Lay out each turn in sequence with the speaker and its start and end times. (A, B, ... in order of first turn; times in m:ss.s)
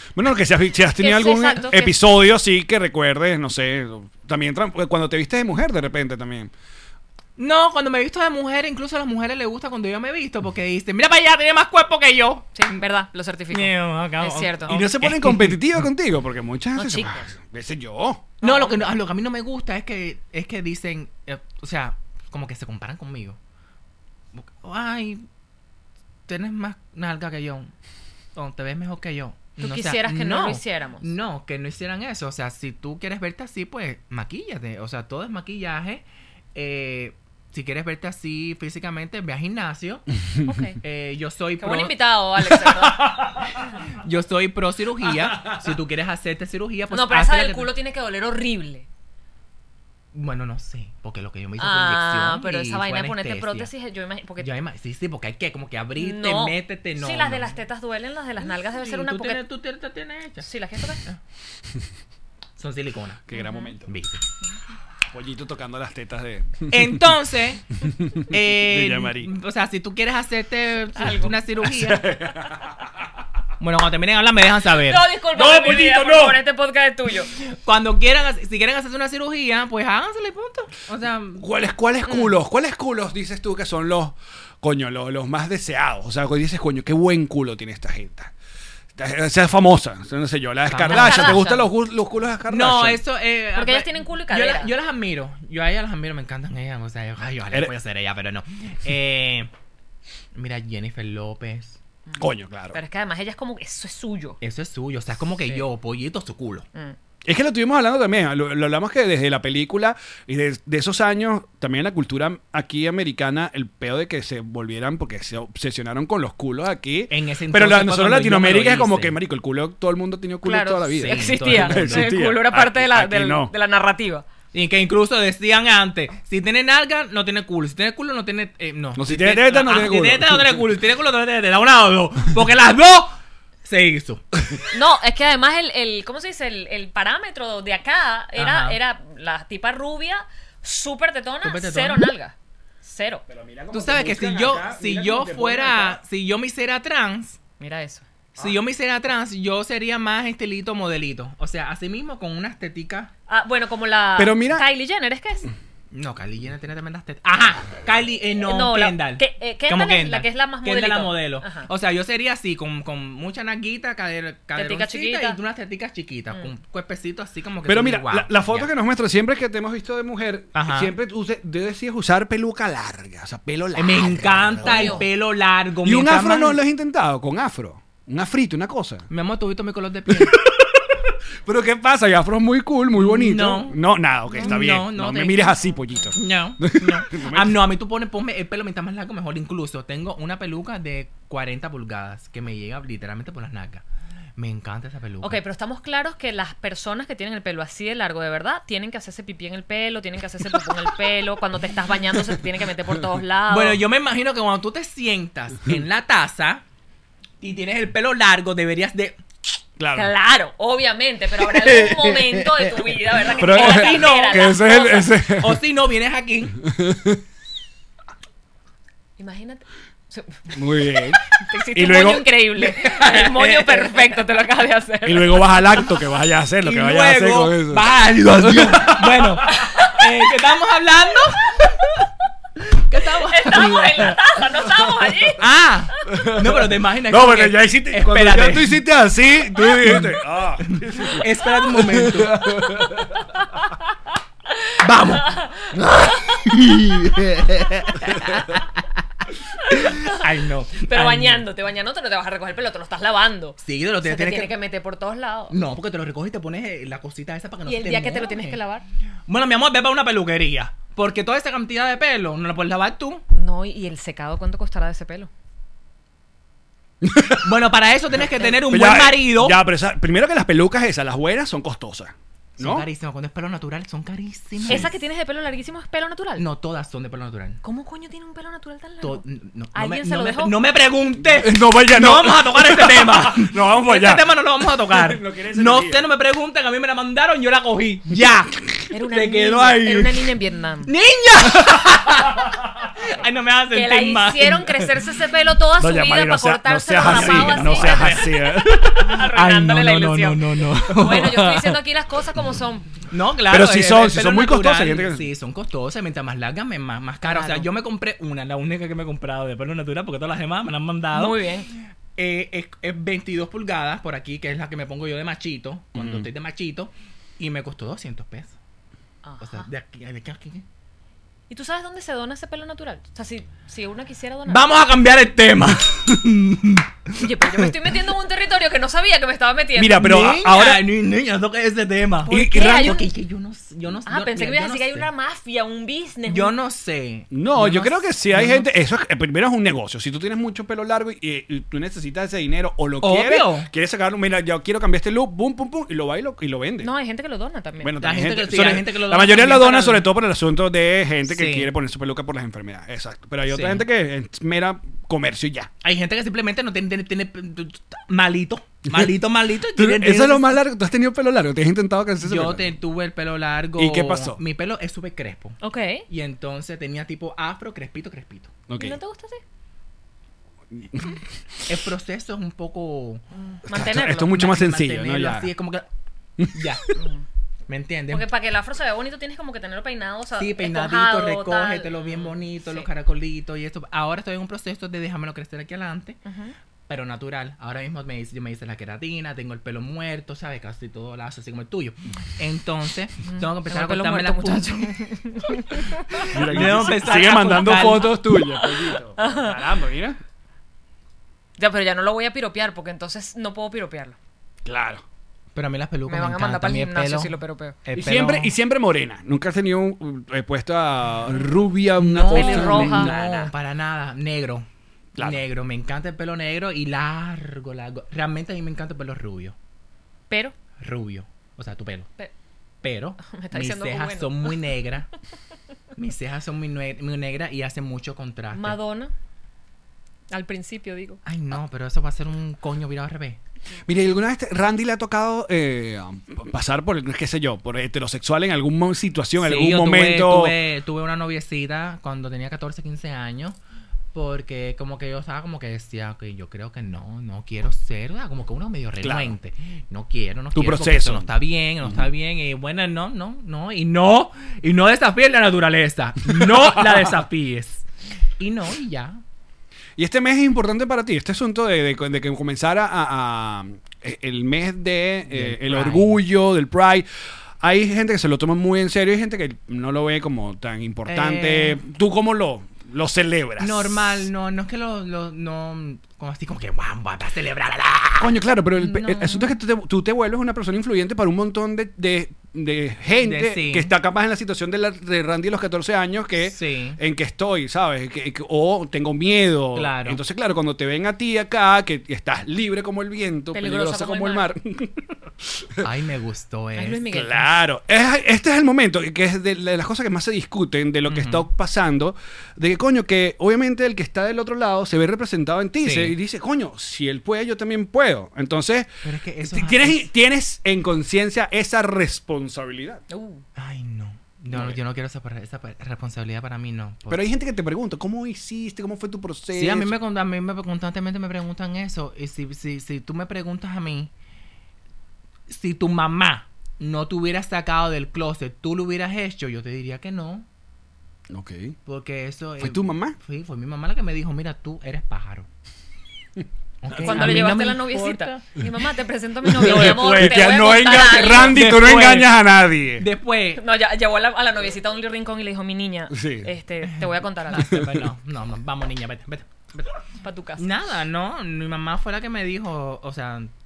0:00.2-0:06.5 A
0:01.0-0:02.0 B
0:07.4-0:12.5 C
0:12.6-0:14.8 B
0:13.5-0:15.7 C
0:14.7-0:18.2 A
0:16.8-0:17.3 B
0:18.4-0:18.9 B
0:18.4-0:23.4 C
0:24.4-0:25.2 C
0:26.3-0:27.7 C
0:28.4-0:40.0 C
0:29.6-0:31.1 B
0:40.4-0:40.8 B
0:40.8-0:42.0 C
0:41.6-0:43.2 B
0:42.6-0:43.5 A
0:43.9-0:47.7 C
0:45.2-0:45.7 A
0:46.9-0:48.9 B
0:50.1-0:53.7 C
0:51.6-0:54.5 B
0:54.4-0:57.5 C
0:56.0-0:59.4 B
0:58.4-1:00.5 C
1:00.4-1:01.0 B
1:02.6-1:03.2 C
1:03.3-1:03.9 A
1:03.3-1:03.7 B
1:03.9-1:04.2 C
1:05.1-1:07.0 A
1:06.7-1:07.6 C
1:08.0-1:09.3 A
1:08.3-1:12.0 C
1:11.0-1:11.6 B
1:11.6-1:12.7 A
1:13.6-1:15.0 C
1:14.8-1:17.3 B
1:15.3-1:16.4 A
1:17.6-1:21.4 C
1:21.4-1:28.3 A
1:22.1-1:22.3 B
1:29.0-1:33.0 A
1:30.7-1:31.5 C
1:30.9-1:31.7 B
1:32.5-1:39.5 C
1:33.6-1:34.7 B
1:40.3-1:41.8 C
1:42.1-1:44.4 B
1:42.2-1:42.8 A
1:44.4-1:46.7 C
1:47.2-2:03.5 A
1:57.1-1:59.2 C
2:00.4-2:04.3 B
2:01.0-2:02.1 C
2:04.5-2:14.2 C
2:09.0-2:10.6 A
2:14.7-2:23.2 B
2:18.4-2:18.8 C
2:21.4-2:22.1 C
2:23.3-2:26.0 A
2:23.7-2:27.4 C
2:27.6-2:28.0 B
2:28.4-2:33.1 C
2:33.3-2:35.5 B
2:34.2-2:34.7 A
2:35.9-2:48.7 C
2:38.4-2:41.7 B
2:44.6-2:45.4 B
2:47.7-2:55.0 A
2:50.5-2:50.9 C
2:53.8-2:56.6 C
2:54.6-2:55.0 B
2:55.8-2:59.1 A
2:59.1-3:00.4 C
3:00.1-3:00.9 A
3:01.4-3:07.6 A
3:02.9-3:03.8 C
3:04.4-3:04.6 B
3:04.4-3:05.5 C
3:06.2-3:13.8 C
3:14.4-3:15.4 C
3:15.2-3:23.8 B
3:23.5-3:26.6 C
3:27.4-3:29.2 C
3:29.8-3:30.1 A
3:30.0-3:35.1 B
3:31.7-3:32.0 A
3:33.4-3:35.6 A
3:33.4-3:34.7 C
3:35.3-3:36.6 C
3:36.6-3:37.2 A
3:39.2-3:40.4 B
3:40.5-3:41.2 A
3:41.4-3:45.5 B
3:41.7-3:42.3 A
3:42.6-3:44.2 C
3:45.0-3:49.6 A
3:46.6-3:51.7 C
3:49.6-3:49.9 B
3:52.9-3:54.2 C
3:53.3-3:55.4 B
3:55.4-3:58.8 C
3:56.1-4:03.3 A
3:59.8-4:00.1 C
4:00.7-4:02.4 C
4:04.8-4:08.8 C
4:05.1-4:05.7 B
4:09.7-4:10.2 B
4:09.7-4:11.5 C
4:10.8-4:15.6 B
4:13.6-4:14.5 C
4:15.5-4:18.6 C
4:17.7-4:18.8 B
4:19.3-4:23.2 C
4:23.3-4:25.3 B
4:27.0-4:27.5 A
4:27.4-4:29.6 C
4:28.4-4:32.9 A
4:32.6-4:34.9 C
4:34.7-4:36.5 B
4:36.4-4:37.6 C
4:37.6-4:39.2 B
4:39.0-4:50.3 C
4:39.7-4:40.6 B
4:41.3-4:44.3 A
4:44.9-4:46.1 A
4:48.9-4:50.9 B
4:50.9-4:54.9 C
4:53.7-5:03.0 B
4:55.8-4:59.1 A
4:57.0-4:58.3 C
4:59.1-5:01.7 C
5:03.1-5:11.4 C
5:03.5-5:05.3 A
5:07.2-5:07.7 B
5:11.1-5:11.7 B
5:12.2-5:18.6 C
5:16.0-5:16.3 A
5:19.2-5:19.7 B
5:19.4-5:20.6 C
5:21.5-5:24.6 B
5:24.5-5:27.7 C
5:27.2-5:30.3 B
5:29.8-5:30.9 A
5:30.0-5:35.1 C
5:32.3-5:33.1 B
5:32.3-5:33.0 A
5:34.1-5:36.6 B
5:36.3-5:38.6 C
5:37.3-5:46.9 A
5:43.0-5:43.7 C
5:46.8-5:48.0 B
5:47.8-5:55.7 A
5:48.0-5:50.1 C
5:51.3-5:51.7 C
5:53.5-5:53.8 C
5:55.8-6:00.5 C
5:59.8-6:02.7 A
6:02.2-6:05.6 C
6:03.8-6:04.4 A
6:05.6-6:06.0 B
6:06.1-6:08.5 C
6:08.7-6:09.0 A
6:08.8-6:09.4 B
6:10.7-6:11.2 A
6:11.7-6:13.2 C
6:13.4-6:14.4 B
6:13.7-6:15.5 A
6:14.3-6:15.9 C
6:16.4-6:16.9 A
6:16.5-6:16.9 C
6:17.0-6:17.2 B
6:17.7-6:18.3 C
6:18.1-6:22.9 B
6:20.4-6:26.2 C
6:26.3-6:26.5 B
6:26.9-6:34.9 C
6:33.2-6:36.8 B
6:36.1-6:38.2 C
6:36.3-6:40.2 A
6:38.6-6:39.6 B
6:41.6-6:44.2 B
6:44.6-6:45.0 A
6:45.6-6:47.3 C
6:46.1-6:47.8 B
6:47.8-6:48.5 C
6:48.0-6:53.2 A
6:52.0-6:54.7 C
6:52.3-6:53.5 B
6:55.2-6:55.4 A
6:55.2-6:59.6 C
7:00.8-7:02.1 C
7:02.8-7:05.1 C
7:03.2-7:04.6 B
7:06.0-7:08.8 C
7:08.5-7:09.1 B
7:10.3-7:11.2 B
7:11.2-7:13.4 C
7:13.9-7:20.6 A
7:19.4-7:23.6 C
7:24.1-7:37.9 C
7:29.0-7:29.4 A
7:30.5-7:31.3 A
7:36.3-7:37.2 A
7:38.4-7:39.2 C
7:40.0-7:47.1 A
7:45.3-7:46.2 C
7:47.6-7:54.2 A
7:51.1-7:51.8 C
7:53.6-7:59.6 C
7:58.2-8:15.8 A
8:03.2-8:03.9 C
8:06.4-8:07.0 C
8:09.8-8:10.2 C
8:13.5-8:14.5 B
8:15.8-8:17.0 C
8:16.8-8:17.6 B
8:17.1-8:28.9 A
8:21.1-8:21.5 C
8:25.8-8:26.2 C
8:29.0-8:30.1 C
8:29.4-8:33.0 A
8:33.1-8:33.4 B
8:33.6-8:37.2 C
8:34.5-8:34.8 A
8:37.1-8:39.9 A
8:39.5-8:44.1 C
8:45.5-8:50.5 C
8:51.3-8:51.8 A
8:51.9-8:55.5 C
8:52.6-8:53.2 A
8:56.8-8:58.6 C
8:57.0-9:01.6 B
8:59.4-9:03.1 A
8:59.6-9:02.4 C
9:03.0-9:03.6 C
9:03.6-9:07.7 B
9:06.1-9:06.5 A
9:06.9-9:09.8 C
9:07.6-9:08.1 A
9:10.2-9:10.6 B
9:10.6-9:13.5 C